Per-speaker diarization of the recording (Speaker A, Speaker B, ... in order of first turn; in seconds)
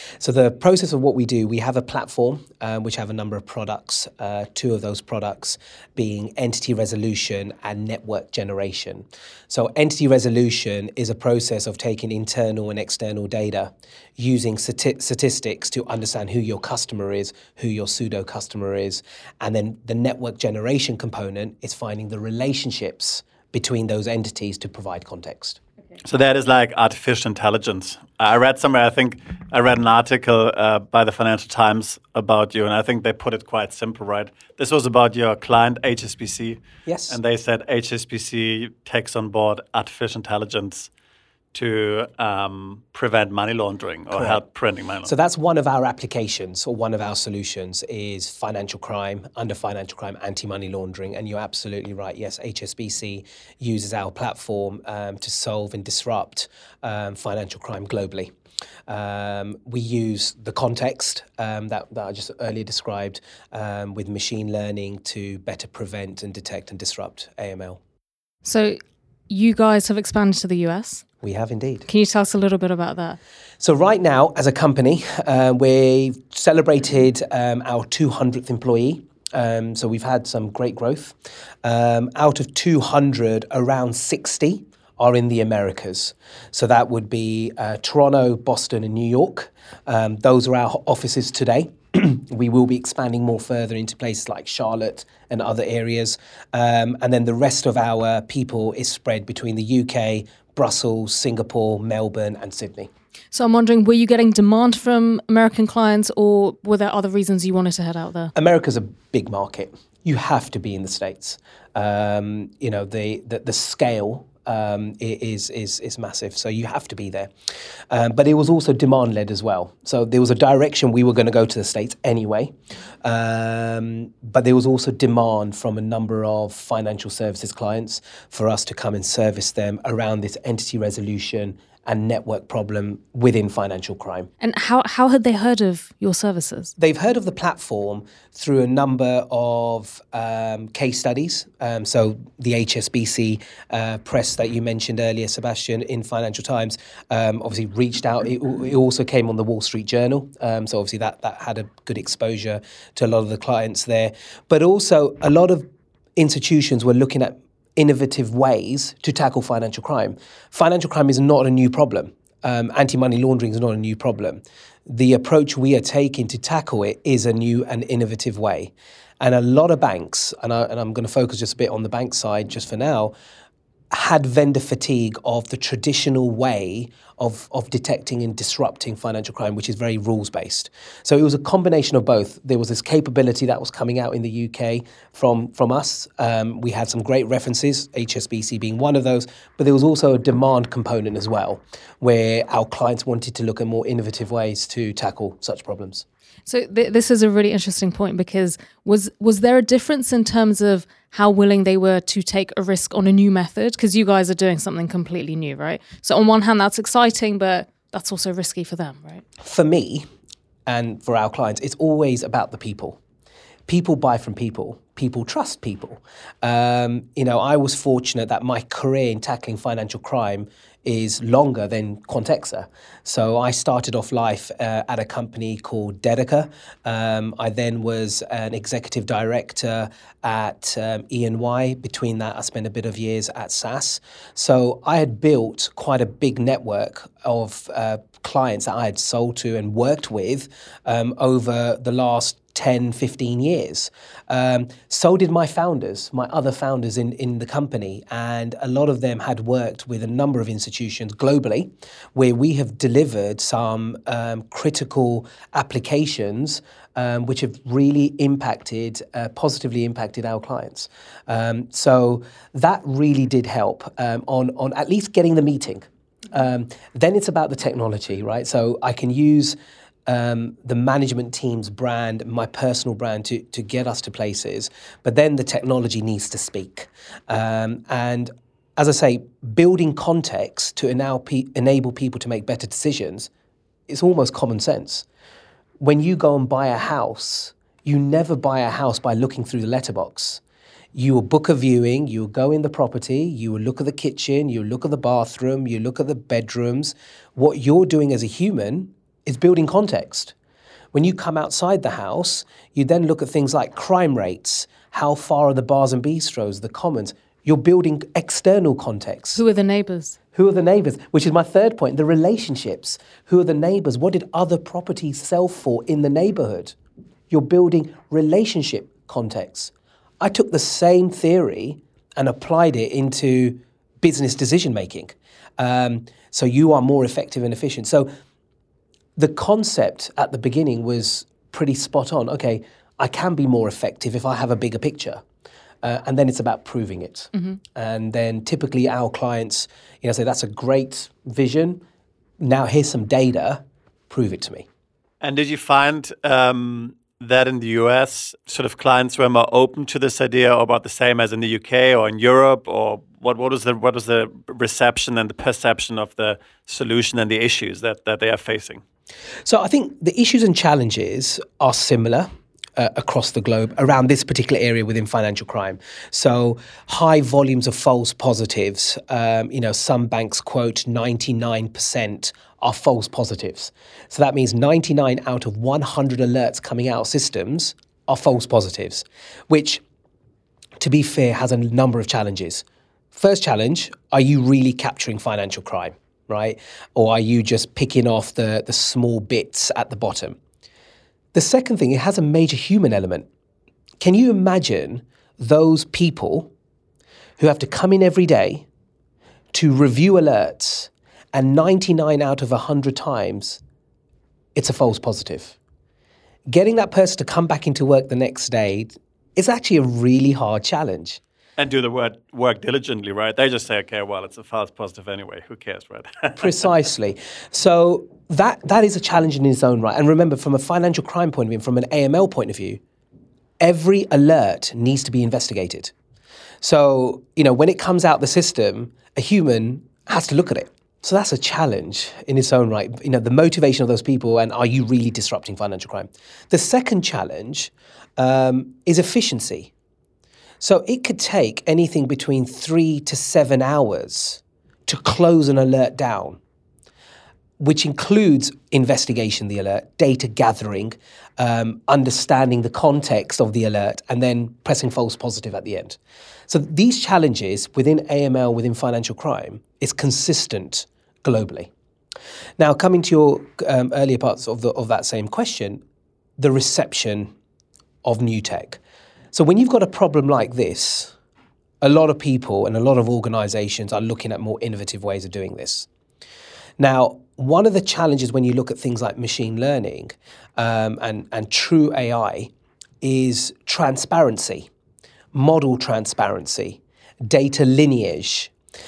Speaker A: 0.2-25.6, 36.9-37.2, 44.1-44.4, 45.0-58.3, 58.9-67.8, 71.2-71.9, 73.6-102.9, 108.3-117.3, 117.9-134.3, 136.8-173.1, 173.9-196.0, 209.4-210.1, 210.7-213.0, 213.7-283.3, 283.9-285.1, 285.8-290.4, 290.9-300.3, 300.9-309.4, 310.3-316.7, 317.3-328.1, 329.2-335.2, 335.8-341.8, 342.4-344.6, 359.4-379.8, 380.8-390.4, 391.3-393.3, 394.0-396.5, 397.4-398.6, 399.5-403.6, 404.5-405.6, 406.5-411.2, 416.4-422.8, 423.6-425.9, 426.6-439.7, 440.6-446.4, 447.6-461.7, 462.6-465.8, 466.4-467.3, 468.0-468.8, 469.3-471.1, 471.8-475.9, 476.8-484.7, 485.3-488.5
Speaker B: 26.0-40.9, 41.5-45.1, 345.2-358.8, 411.6-416.5
Speaker C: 68.4-68.8, 69.3-71.0, 71.9-73.2, 103.3-108.3, 134.4-136.7, 196.4-209.2, 309.4-310.2